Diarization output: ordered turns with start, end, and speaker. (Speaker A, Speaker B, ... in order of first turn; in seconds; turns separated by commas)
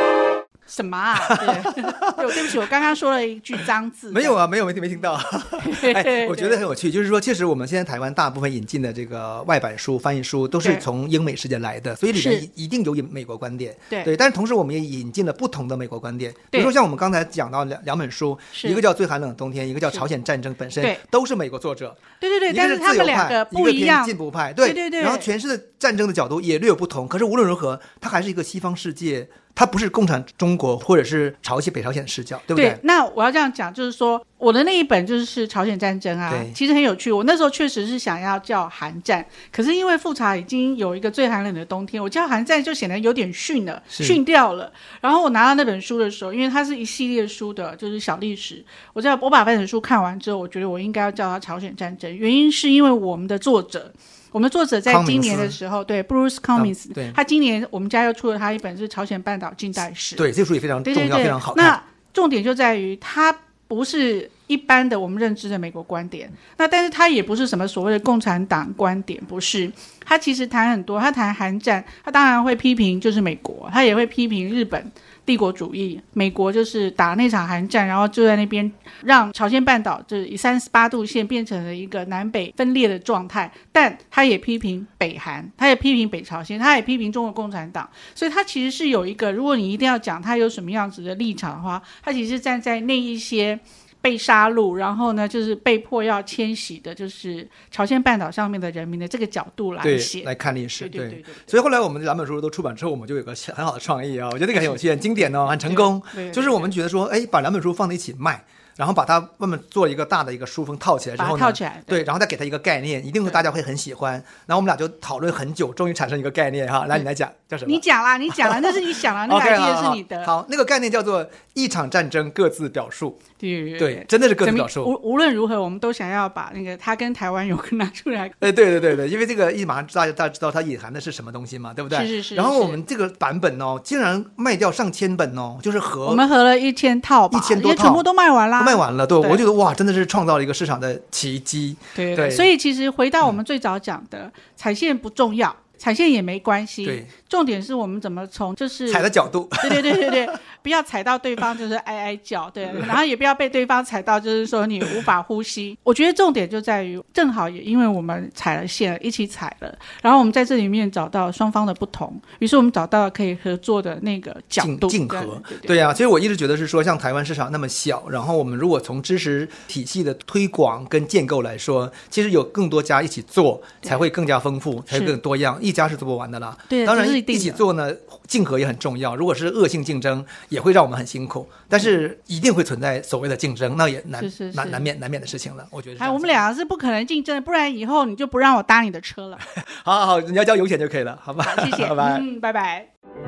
Speaker A: 0.7-4.4, Speaker B: 1.3-2.6, Speaker B: 4.1-32.8, Speaker A: 5.6-6.6, Speaker A: 10.6-10.8, Speaker A: 12.1-12.5, Speaker A: 18.5-18.8, Speaker A: 22.2-25.3, Speaker A: 32.5-60.3, Speaker B: 36.3-36.5, Speaker B: 43.9-44.2, Speaker B: 54.9-55.6, Speaker B: 56.5-57.2, Speaker B: 60.2-61.8, Speaker A: 60.8-101.5, Speaker B: 99.8-123.2, Speaker A: 105.5-106.7, Speaker A: 111.2-112.0, Speaker A: 117.7-120.3, Speaker A: 123.4-128.5, Speaker B: 123.8-124.9, Speaker B: 128.4-136.3, Speaker A: 131.9-132.8, Speaker A: 136.0-139.4, Speaker B: 137.3-138.1, Speaker B: 138.6-142.5, Speaker A: 141.9-165.8, Speaker B: 146.8-147.1, Speaker B: 148.9-150.3, Speaker B: 164.6-186.4, Speaker A: 174.9-175.1, Speaker A: 176.7-177.6, Speaker A: 184.2-184.8, Speaker A: 186.0-189.4, Speaker B: 189.6-192.2, Speaker A: 191.4-192.9